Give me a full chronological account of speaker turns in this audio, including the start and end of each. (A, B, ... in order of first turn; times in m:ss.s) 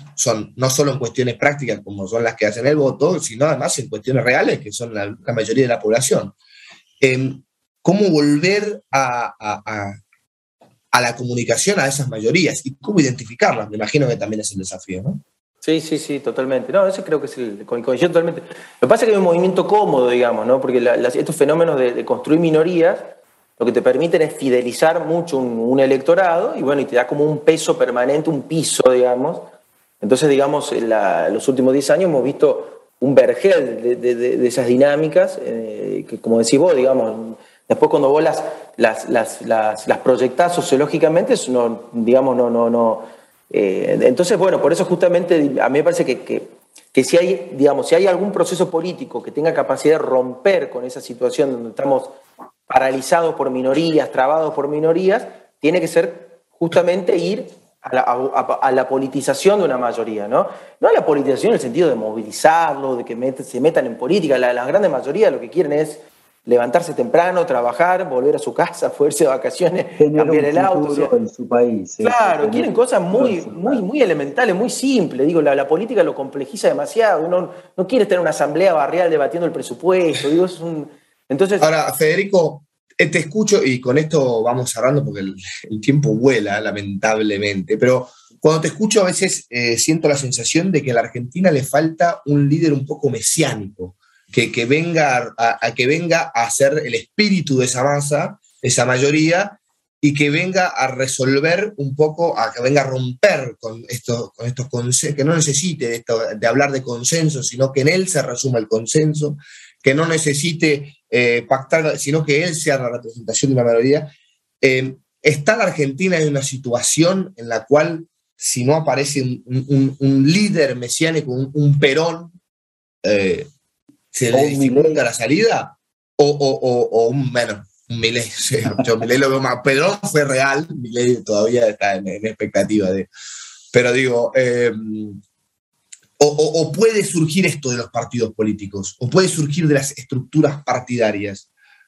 0:00.2-0:06.3 A
0:07.0-0:10.0 A
0:10.9-0:15.2 A
0:15.6-0:29.4 B
0:30.0-0:52.2 B
0:52.7-1:11.1 B
1:10.0-1:13.8 C
1:12.0-1:21.7 B
1:21.6-1:54.1 A
1:54.6-2:02.3 A
2:03.0-2:03.5 A
2:04.1-2:13.1 A
2:04.3-2:05.0 C
2:13.7-2:15.2 A
2:16.2-2:21.5 A